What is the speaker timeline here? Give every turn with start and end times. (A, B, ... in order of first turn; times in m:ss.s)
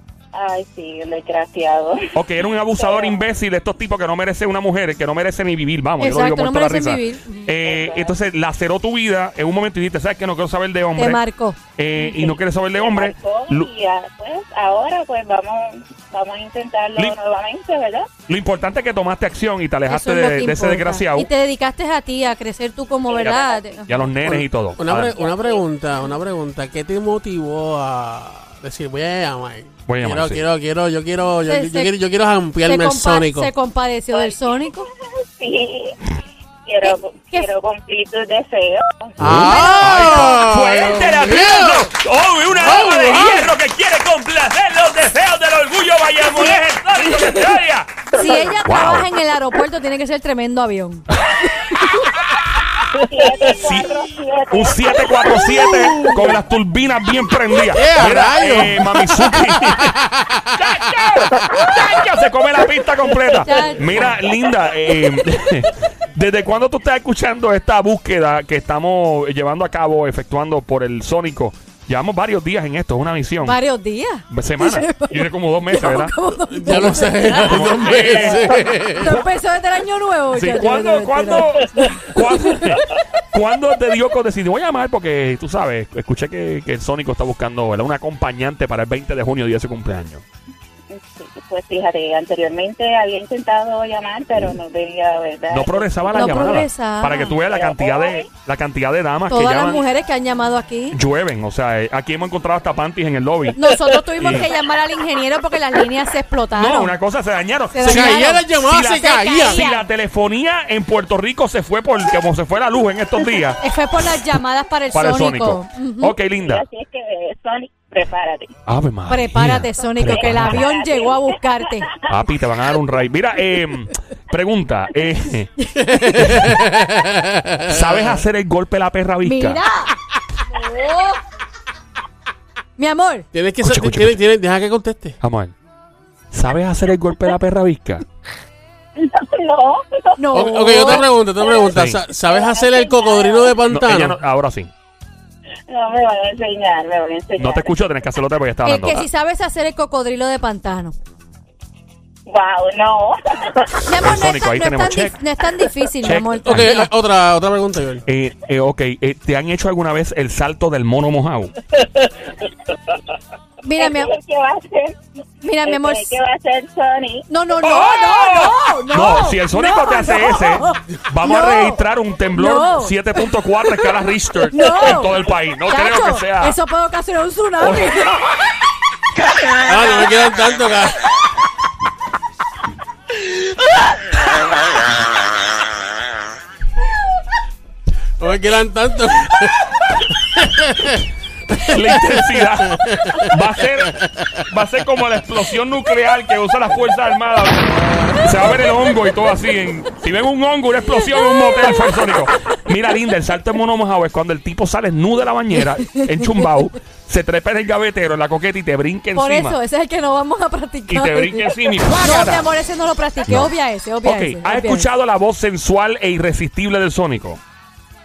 0:00.3-0:02.1 A
0:02.1-0:11.2 B
0:02.7-0:03.2 A
0:06.0-0:07.5 C
0:07.6-0:08.2 A
0:11.0-0:11.6 C
0:11.8-0:13.7 B
0:12.0-0:18.1 A
0:18.3-0:21.3 B
0:19.9-0:24.0 C
0:23.1-0:23.8 A
0:23.2-0:25.1 B
0:24.2-0:33.5 D
0:25.0-0:25.7 A
0:29.9-0:30.4 B
0:31.4-0:31.9 C
0:32.6-0:34.9 C
0:34.1-0:39.2 A
0:36.8-0:37.5 C
0:39.2-0:49.1 B
0:39.2-0:41.9 D
0:39.4-0:40.5 C
0:42.5-0:43.4 D
0:48.1-0:51.0 C
0:51.6-0:51.8 C
0:53.0-0:55.4 A
0:53.4-0:53.9 B
0:54.5-1:00.0 B
0:57.7-1:00.6 D
1:00.6-1:13.6 B
1:03.4-1:03.9 C
1:13.4-1:17.9 C
1:14.3-1:16.1 B
1:16.5-1:19.2 D
1:16.7-1:19.3 B
1:18.5-1:22.6 C
1:20.3-1:30.2 B
1:30.9-1:36.4 A
1:35.5-1:39.8 B
1:36.1-1:37.3 C
1:37.2-1:38.3 A
1:39.3-1:41.0 C
1:40.9-1:43.6 B
1:43.5-1:46.9 C
1:44.2-1:44.5 B
1:46.5-1:53.6 B
1:47.7-1:48.5 C
1:47.8-1:49.6 D
1:49.0-1:49.9 C
1:53.6-1:56.1 C
1:54.9-1:56.6 B
1:56.4-1:58.5 A
1:58.7-2:00.6 B
1:59.1-2:02.1 C
2:00.0-2:01.9 A
2:02.1-2:05.5 B
2:05.8-2:08.2 D
2:06.2-2:06.5 B
2:07.7-2:09.6 B
2:09.2-2:09.9 C
2:10.5-2:11.2 C
2:12.8-2:13.2 C
2:13.3-2:15.2 D
2:13.6-2:14.2 B
2:15.2-2:15.5 B
2:16.3-2:18.0 B
2:19.0-2:20.2 A
2:20.2-2:21.1 C
2:20.3-2:24.2 D
2:20.7-2:23.6 A
2:21.7-2:22.0 B
2:23.7-2:24.7 B
2:25.7-2:27.8 A
2:27.4-2:29.0 B
2:28.6-2:30.9 C
2:32.3-2:33.9 A
2:33.8-2:36.8 C
2:34.0-2:35.2 B
2:36.0-2:36.9 B
2:36.4-2:38.0 D
2:38.1-2:41.5 B
2:41.8-2:42.3 A
2:43.6-2:44.1 C
2:43.8-2:45.0 A
2:45.4-2:46.2 C
2:45.6-2:47.3 A
2:47.3-2:51.8 C
2:47.6-2:56.6 B
2:52.3-2:53.9 C
2:54.5-2:58.4 C
2:57.6-2:57.9 B
2:59.6-3:01.0 D
3:08.2-3:11.0 D
3:11.5-3:29.6 B
3:11.8-3:13.3 D
3:20.9-3:22.6 C
3:25.6-3:26.6 C
3:29.1-3:34.9 C
3:30.9-3:32.5 B
3:34.0-3:37.4 B